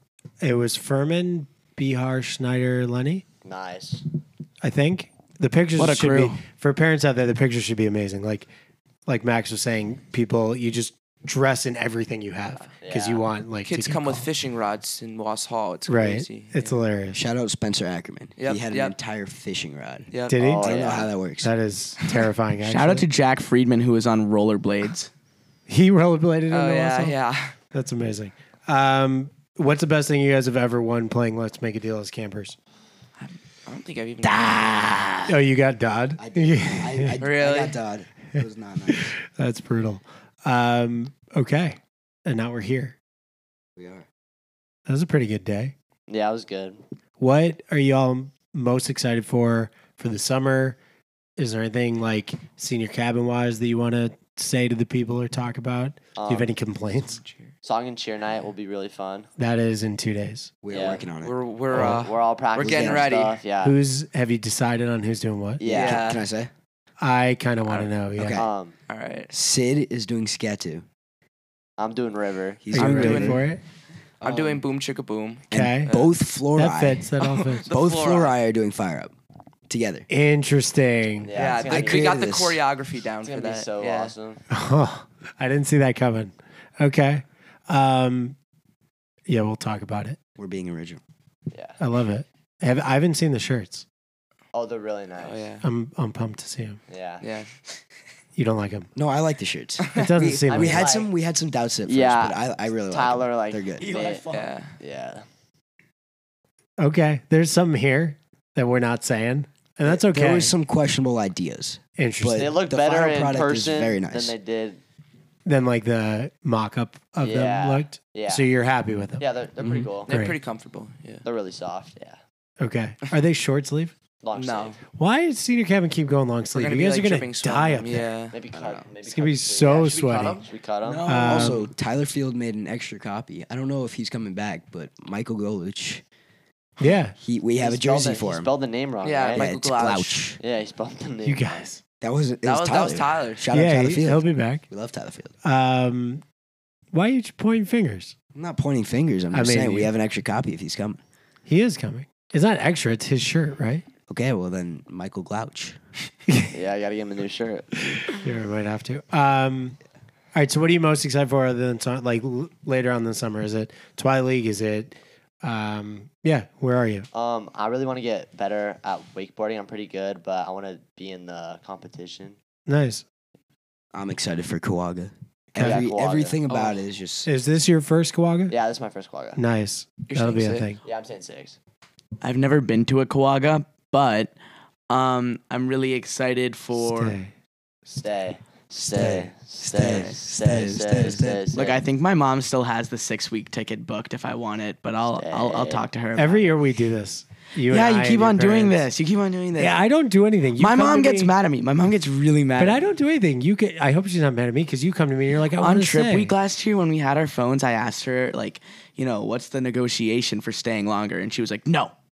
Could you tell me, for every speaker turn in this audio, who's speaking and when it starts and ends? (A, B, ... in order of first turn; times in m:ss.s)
0:00.4-0:03.2 A
0:03.4-0:04.0 B
0:04.6-0:08.5 A
0:05.8-0:06.4 C
0:09.1-0:14.3 A
0:12.8-0:13.2 B
0:13.6-0:16.8 D
0:15.9-0:17.2 A
0:17.1-0:21.5 E
0:18.4-0:18.9 D
0:20.1-0:20.4 D
0:20.3-0:20.9 A
0:20.3-0:21.1 B
0:21.4-0:23.0 A
0:22.6-0:25.1 C
0:25.7-0:27.2 A
0:26.5-0:27.5 D
0:27.7-0:32.6 A
0:33.2-0:35.1 D
0:34.2-0:35.3 C
0:35.3-0:37.2 A
0:36.2-0:39.1 E
0:37.2-0:37.8 D
0:38.9-0:43.0 A
0:43.8-0:44.0 E
0:44.9-0:45.7 A
0:46.1-0:46.8 B
0:47.2-0:50.8 A
0:51.4-0:57.2 A
0:56.2-0:56.5 B
0:57.0-0:57.5 D
0:57.6-0:59.3 B
0:59.4-1:00.5 A
1:00.6-1:02.0 E
1:00.7-1:01.0 B
1:01.2-1:03.4 D
1:01.7-1:03.8 B
1:01.8-1:02.0 A
1:02.6-1:03.1 E
1:03.6-1:05.6 A
1:05.6-1:06.1 B
1:05.6-1:06.5 E
1:05.7-1:06.2 D
1:07.0-1:08.4 A
1:07.6-1:07.9 D
1:08.2-1:08.5 E
1:08.3-1:08.7 B
1:08.9-1:09.3 D
1:09.3-1:10.8 E
1:11.8-1:12.7 B
1:12.6-1:13.4 E
1:12.7-1:13.6 A
1:12.8-1:13.2 C
1:12.9-1:13.4 D
1:14.2-1:16.1 D
1:14.2-1:14.6 E
1:15.5-1:17.1 E
1:15.5-1:15.9 A
1:16.5-1:17.7 A
1:17.2-1:18.3 D
1:17.7-1:19.1 E
1:19.7-1:20.1 E
1:20.1-1:21.3 A
1:21.2-1:22.2 B
1:21.3-1:24.1 D
1:21.7-1:22.6 E
1:23.2-1:24.4 B
1:24.5-1:28.4 A
1:29.3-1:30.2 A
1:30.4-1:31.0 E
1:31.5-1:31.8 B
1:31.8-1:33.8 A
1:34.5-1:35.4 B
1:35.2-1:35.6 D
1:35.6-1:36.8 A
1:36.9-1:37.2 B
1:37.2-1:37.5 D
1:38.4-1:38.9 A
1:39.0-1:43.9 E
1:39.9-1:40.8 A
1:40.5-1:41.1 B
1:41.8-1:45.2 B
1:43.8-1:44.5 C
1:44.3-1:44.7 D
1:46.8-1:50.5 A
1:49.8-1:54.3 E
1:52.0-1:52.5 A
1:52.3-1:54.8 B
1:55.4-1:59.2 A
1:57.2-1:58.4 B
1:59.2-2:00.1 B
1:59.6-1:59.9 E
2:00.1-2:01.2 D
2:00.1-2:00.3 A
2:01.2-2:02.2 B
2:02.6-2:03.9 A
2:04.2-2:04.8 B
2:04.3-2:04.8 D
2:04.9-2:08.1 A
2:06.5-2:08.4 D
2:08.3-2:11.1 B
2:09.0-2:10.4 A
2:09.6-2:10.5 D
2:10.8-2:11.6 C
2:11.0-2:11.6 A
2:11.1-2:16.0 E
2:16.8-2:17.1 A
2:17.2-2:18.5 E
2:17.6-2:19.5 B
2:19.0-2:20.2 D
2:19.3-2:20.4 E
2:20.4-2:21.6 B
2:21.2-2:21.8 A
2:22.0-2:25.3 E
2:22.4-2:23.4 D
2:23.5-2:24.6 A
2:25.4-2:26.2 A
2:26.9-2:28.1 A
2:28.3-2:31.0 E
2:29.3-2:29.9 A
2:31.5-2:33.8 A
2:34.1-2:35.8 E
2:36.5-2:37.7 B
2:37.9-2:39.8 A
2:40.3-2:47.1 A
2:47.1-2:52.4 B
2:52.7-2:53.0 A
2:53.9-2:57.3 E
2:55.6-2:55.8 A
2:55.6-2:56.4 B
2:57.2-2:58.5 A
2:58.5-2:59.4 B
2:59.4-3:00.8 A
3:00.0-3:00.7 D
3:00.8-3:01.6 B
3:02.2-3:04.3 C
3:04.9-3:07.2 C
3:06.7-3:07.3 A
3:07.9-3:11.8 B
3:08.9-3:11.4 E
3:11.5-3:16.5 C
3:15.2-3:15.9 B
3:16.2-3:18.9 A
3:17.7-3:19.8 C
3:19.6-3:21.3 A
3:20.6-3:22.9 C
3:22.6-3:26.3 A
3:25.6-3:31.9 C